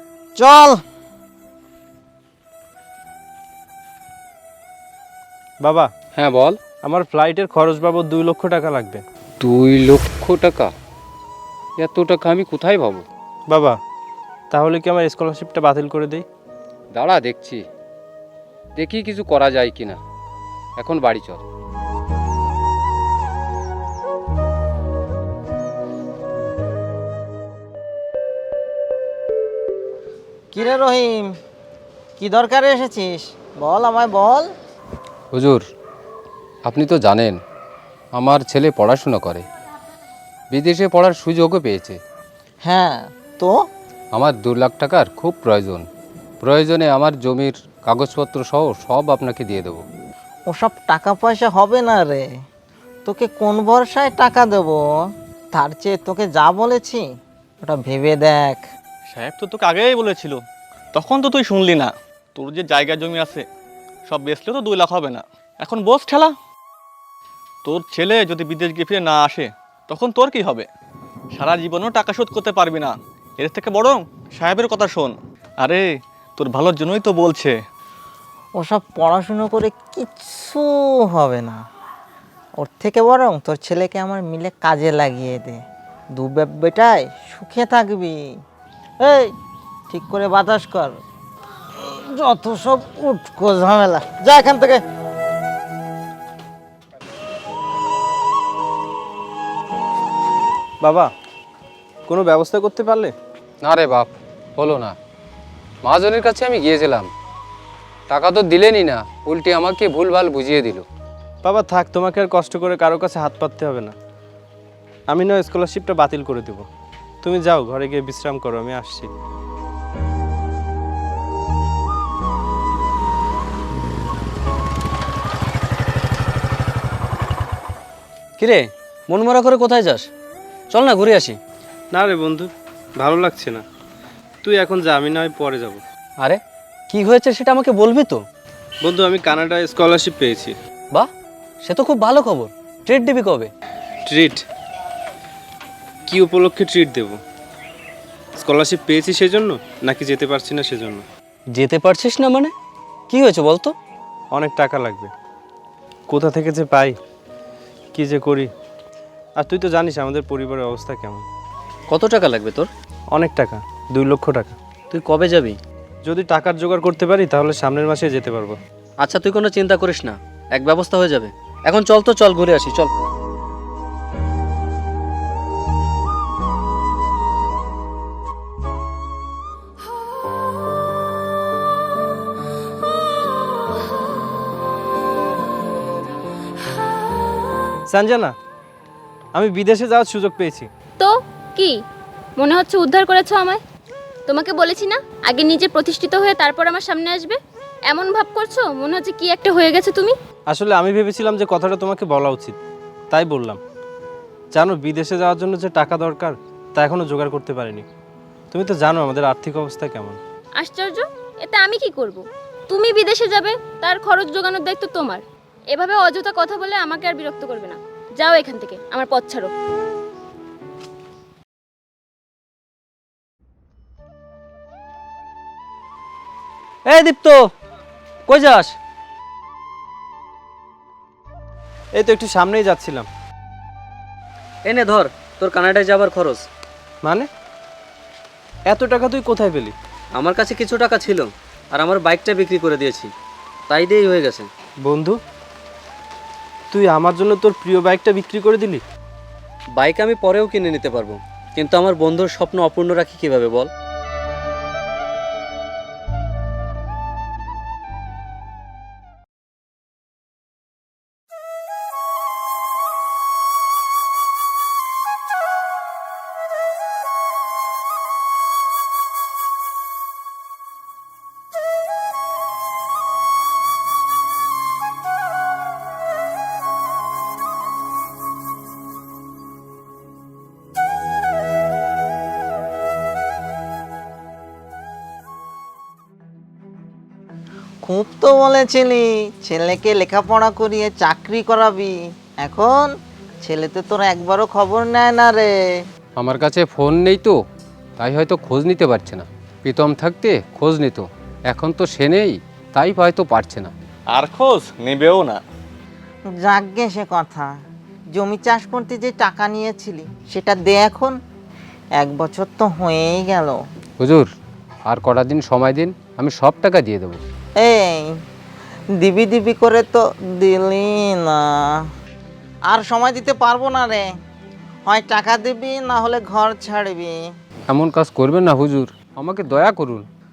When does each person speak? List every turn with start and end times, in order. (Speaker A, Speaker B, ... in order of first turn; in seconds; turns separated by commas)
Speaker A: 0.4-0.8, Speaker B: 5.6-5.9, Speaker C: 6.2-6.6, Speaker B: 6.8-9.0, Speaker C: 9.4-10.7, Speaker C: 11.8-13.0, Speaker B: 13.5-13.8, Speaker B: 14.5-16.2, Speaker C: 16.9-17.6, Speaker C: 18.8-20.0, Speaker C: 20.8-21.4, Speaker A: 30.5-31.3, Speaker A: 32.2-34.5, Speaker C: 35.3-35.6, Speaker C: 36.7-37.4, Speaker C: 38.1-39.5, Speaker C: 40.5-42.0, Speaker A: 42.6-43.6, Speaker C: 44.1-45.9, Speaker C: 46.4-49.9, Speaker A: 50.5-52.3, Speaker A: 53.0-54.8, Speaker A: 55.5-57.0, Speaker A: 57.6-58.6, Speaker D: 59.1-60.4, Speaker D: 61.0-63.4, Speaker D: 64.1-66.3, Speaker D: 67.7-70.7, Speaker D: 71.4-75.1, Speaker D: 76.4-77.5, Speaker A: 78.6-81.6, Speaker A: 82.6-85.6, Speaker A: 86.2-88.3, Speaker A: 89.0-89.3, Speaker A: 89.9-91.0, Speaker A: 91.8-94.8, Speaker B: 100.8-101.1, Speaker B: 102.1-103.1, Speaker C: 103.6-105.0, Speaker C: 105.8-107.1, Speaker C: 108.1-110.8, Speaker B: 111.4-113.9, Speaker B: 115.1-116.7, Speaker B: 117.2-119.1, Speaker E: 128.4-130.1, Speaker E: 130.7-131.4, Speaker B: 131.9-133.6, Speaker B: 134.4-135.8, Speaker E: 136.2-138.2, Speaker B: 138.8-140.5, Speaker E: 141.6-143.5, Speaker B: 144.1-144.4, Speaker B: 146.1-147.2, Speaker B: 148.4-151.0, Speaker E: 151.5-152.5, Speaker E: 153.1-153.7, Speaker B: 154.3-155.1, Speaker B: 156.1-157.0, Speaker B: 157.9-158.5, Speaker B: 159.4-161.2, Speaker E: 161.9-162.7, Speaker B: 163.1-164.6, Speaker E: 164.9-165.6, Speaker B: 166.1-168.6, Speaker E: 169.0-172.9, Speaker B: 187.9-188.3, Speaker B: 189.3-190.7, Speaker F: 191.0-191.8, Speaker F: 192.4-193.6, Speaker F: 194.3-200.2, Speaker B: 200.5-202.6, Speaker B: 203.1-203.6, Speaker B: 204.5-207.8, Speaker B: 208.5-210.2, Speaker F: 210.6-219.5, Speaker E: 226.9-227.5, Speaker E: 228.3-228.7, Speaker B: 231.9-233.1, Speaker E: 234.7-236.5, Speaker B: 237.0-237.3, Speaker B: 238.7-239.8, Speaker E: 240.2-243.1, Speaker E: 243.7-244.5, Speaker B: 244.8-245.2, Speaker B: 246.7-248.8, Speaker E: 249.8-253.7, Speaker A: 287.8-295.5, Speaker C: 296.2-297.4, Speaker C: 298.0-303.7, Speaker D: 304.1-305.4, Speaker A: 306.4-307.5, Speaker A: 308.1-311.2, Speaker A: 312.0-313.6, Speaker C: 314.0-314.3, Speaker C: 314.9-317.2, Speaker A: 317.6-318.1, Speaker A: 319.0-321.9, Speaker A: 322.7-324.1, Speaker A: 324.9-327.3, Speaker C: 327.7-330.1